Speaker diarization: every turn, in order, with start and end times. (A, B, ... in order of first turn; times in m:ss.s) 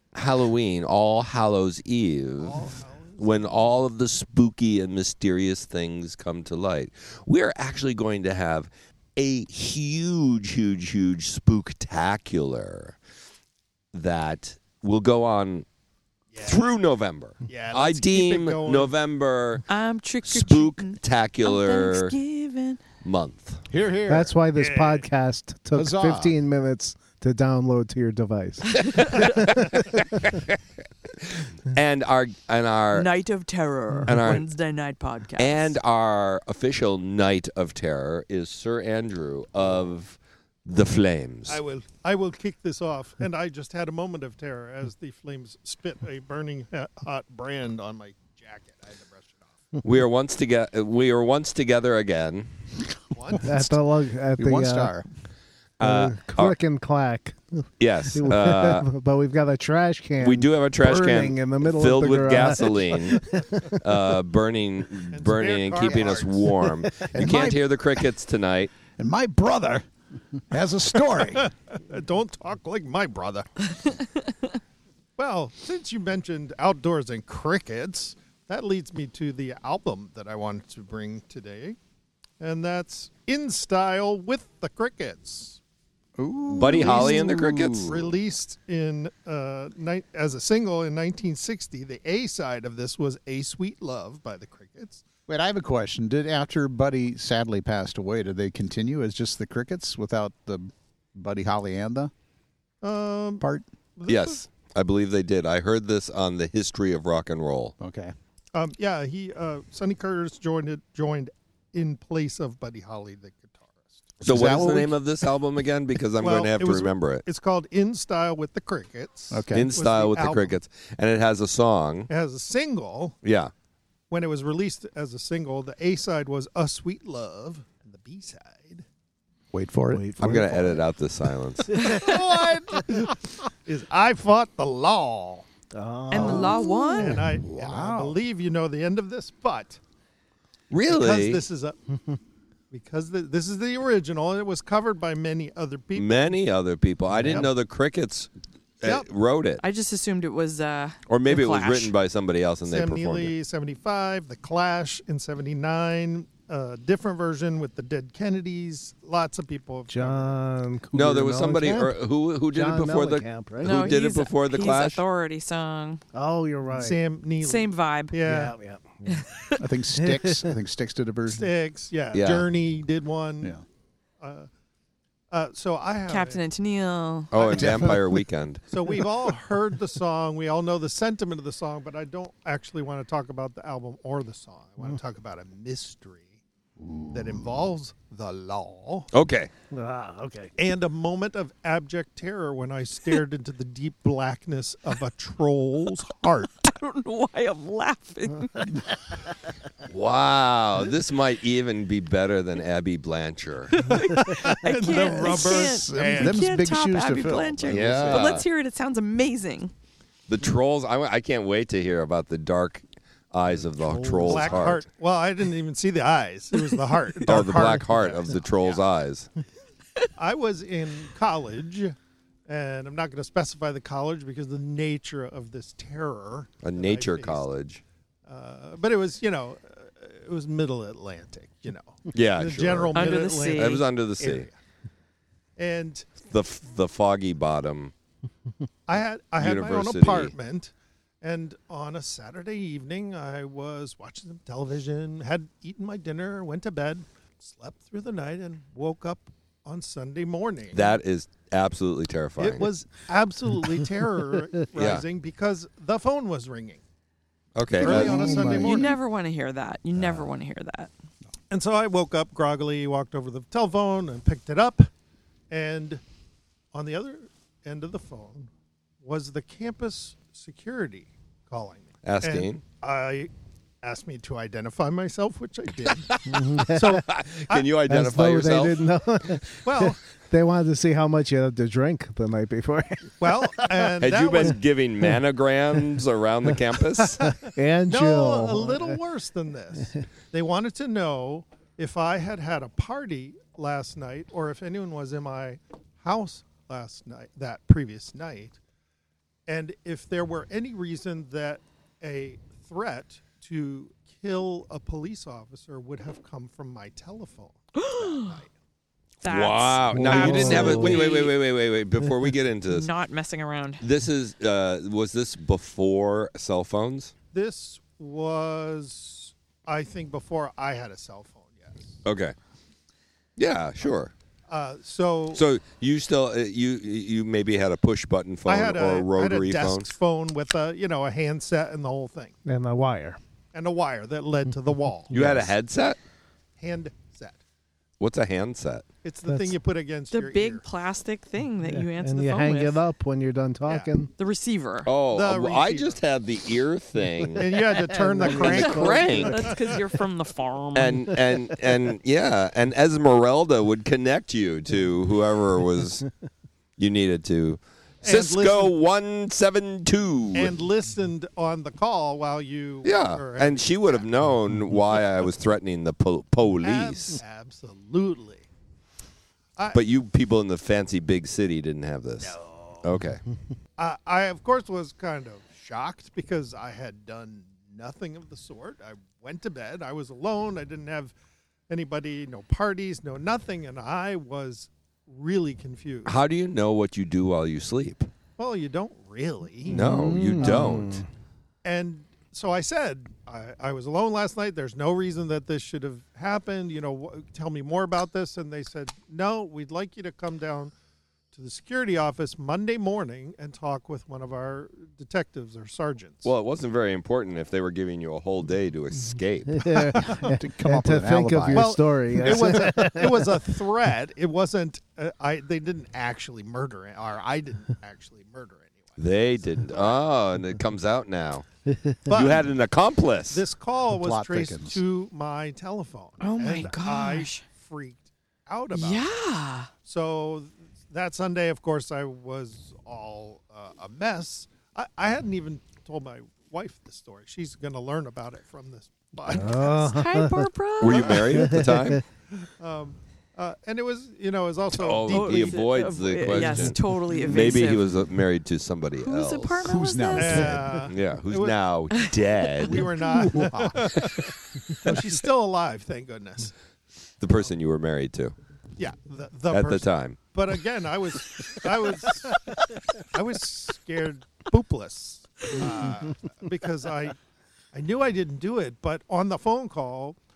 0:00.1-0:13.0 A
0:02.4-0:03.6 B
0:13.9-0:15.7 A
0:16.3-0:16.7 B
0:16.4-0:19.7 A
0:17.5-0:18.9 B
0:19.7-0:22.8 C
0:20.2-0:22.2 A
0:23.0-0:23.6 A
0:23.7-0:24.4 D
0:24.1-0:29.8 E
0:24.6-0:25.1 B
0:25.8-0:26.4 D
0:28.8-0:33.1 A
0:32.9-0:35.8 C
0:34.1-0:34.4 A
0:35.4-0:41.6 A
0:41.5-0:49.8 B
0:49.8-0:52.5 A
0:53.1-0:53.7 B
0:53.4-0:54.9 E
0:54.4-0:55.1 D
0:55.8-0:56.6 A
0:55.8-0:57.6 E
0:57.8-0:58.9 A
0:58.1-1:03.7 E
1:00.2-1:08.7 A
1:05.1-1:06.6 B
1:07.1-1:07.8 D
1:09.0-1:11.5 D
1:11.2-1:13.6 B
1:15.2-1:21.8 B
1:22.4-1:25.6 B
1:26.2-1:28.0 D
1:26.5-1:28.1 A
1:26.7-1:35.0 B
1:35.3-1:42.1 D
1:42.8-1:43.4 B
1:44.0-1:44.4 B
1:44.1-1:47.8 A
1:47.8-1:48.1 D
1:48.5-1:54.4 B
1:54.2-1:55.0 D
1:54.2-1:57.2 A
1:56.2-2:00.6 B
1:59.3-1:59.7 D
1:59.5-2:02.1 A
2:02.1-2:03.2 B
2:03.2-2:03.5 A
2:04.1-2:08.8 B
2:09.5-2:10.5 D
2:09.9-2:10.8 E
2:10.2-2:12.0 A
2:11.8-2:12.1 E
2:11.8-2:15.5 B
2:15.7-2:16.7 E
2:16.1-2:19.8 B
2:16.1-2:17.2 C
2:17.0-2:18.2 D
2:20.7-2:21.4 A
2:20.9-2:21.8 B
2:22.7-2:26.4 B
2:26.0-2:28.3 A
2:27.2-2:27.5 B
2:28.8-2:29.6 A
2:29.6-2:31.9 C
2:31.1-2:33.3 A
2:32.6-2:40.4 B
2:39.9-2:42.0 E
2:40.9-2:45.0 A
2:42.5-2:44.0 E
2:43.6-2:46.0 C
2:46.1-2:47.0 E
2:46.7-2:48.6 B
2:47.4-2:48.2 C
2:48.2-2:49.3 E
2:49.1-2:49.6 C
2:49.6-2:51.5 D
2:50.0-2:50.5 E
2:51.3-2:53.6 B
2:52.1-2:52.5 A
2:54.2-2:54.5 B
2:55.3-2:56.4 B
2:56.1-2:57.3 C
2:57.3-2:58.7 A
2:57.4-2:58.1 B
2:57.6-2:58.0 D
2:58.7-3:06.3 B
3:06.8-3:07.4 D
3:07.1-3:09.1 B
3:09.1-3:09.5 A
3:09.7-3:10.5 E
3:10.6-3:16.5 B
3:16.5-3:18.8 C
3:19.9-3:23.9 A
3:23.8-3:29.7 C
3:23.9-3:26.4 B
3:25.2-3:28.4 D
3:27.7-3:28.4 A
3:30.3-3:34.8 A
3:33.9-3:34.5 E
3:34.2-3:38.8 B
3:37.2-3:39.3 A
3:40.2-3:42.0 B
3:42.5-3:47.5 B
3:46.6-3:47.8 A
3:48.3-3:54.5 B
3:52.1-3:54.5 A
3:52.9-3:53.9 C
3:55.6-3:56.2 B
3:56.2-3:57.9 A
3:58.9-4:10.9 B
3:59.4-4:00.3 A
4:10.7-4:12.7 A
4:12.4-4:16.8 B
4:14.8-4:15.0 A
4:17.6-4:18.4 A
4:17.7-4:19.0 B
4:17.8-4:18.9 E
4:18.2-4:18.8 D
4:18.3-4:20.9 C
4:21.5-4:24.9 B
4:25.5-4:26.0 B
4:26.7-4:28.5 B
4:29.0-4:33.3 B
4:32.0-4:32.6 A
4:33.8-4:37.8 B
4:36.1-4:38.9 A
4:36.3-4:37.0 E
4:37.9-4:44.0 E
4:39.6-4:40.0 B
4:43.2-4:44.6 B
4:44.0-4:47.3 A
4:47.2-4:49.0 E
4:47.9-4:58.6 B
4:59.5-5:08.5 B
5:07.8-5:08.3 C
5:09.2-5:11.4 C
5:09.3-5:12.9 A
5:09.9-5:11.1 E
5:12.7-5:13.8 C
5:13.8-5:17.1 A
5:17.3-5:22.0 B
5:22.0-5:22.4 A
5:23.4-5:24.1 A
5:24.5-5:25.4 B
5:25.3-5:29.9 A
5:28.5-5:32.3 B
5:32.5-5:33.2 E
5:33.5-5:35.2 B
5:35.1-5:36.0 A
5:35.1-5:35.5 E
5:36.6-5:37.4 B
5:38.0-5:38.9 A
5:39.0-5:40.6 B
5:39.3-5:39.6 E
5:40.1-5:42.8 C
5:41.6-5:44.1 E
5:43.7-5:44.0 B
5:44.2-5:44.9 C
5:44.8-5:47.5 A
5:45.0-5:46.0 B
5:47.3-5:49.8 B
5:47.8-5:48.8 E
5:48.2-5:49.6 A
5:48.3-5:51.2 C
5:50.8-5:56.1 A
5:56.8-6:00.6 A
5:58.0-5:58.8 B
6:00.3-6:04.0 B
6:02.8-6:07.2 A
6:06.6-6:08.5 B
6:09.6-6:09.8 B
6:09.7-6:13.2 A
6:12.2-6:12.8 B
6:13.8-6:21.2 B
6:21.7-6:26.2 B
6:26.0-6:28.1 A
6:28.4-6:29.9 B
6:29.7-6:31.0 A
6:29.7-6:31.0 E
6:31.6-6:40.7 B
6:41.3-6:46.3 B
6:46.2-6:49.8 A
6:49.5-6:53.3 E
6:49.8-6:50.3 B
6:50.0-6:51.8 D
6:51.5-7:00.0 B
6:59.0-7:01.4 A
7:02.1-7:02.5 B
7:02.1-7:03.4 A
7:03.3-7:09.1 B
7:04.0-7:04.8 D
7:06.2-7:07.4 C
7:08.7-7:09.7 C
7:09.8-7:20.0 B
7:19.3-7:20.5 E
7:19.6-7:21.4 C
7:20.8-7:22.0 A
7:21.3-7:22.0 E
7:22.4-7:25.8 B
7:24.7-7:29.6 A
7:25.1-7:27.9 C
7:29.0-7:30.7 C
7:29.6-7:30.9 D
7:30.2-7:31.6 B
7:30.9-7:33.0 A
7:31.9-7:32.8 C
7:32.6-7:36.5 B
7:33.3-7:33.9 D
7:37.2-7:38.4 A
7:38.8-7:47.2 B
7:39.5-7:40.2 A
7:47.7-7:50.2 B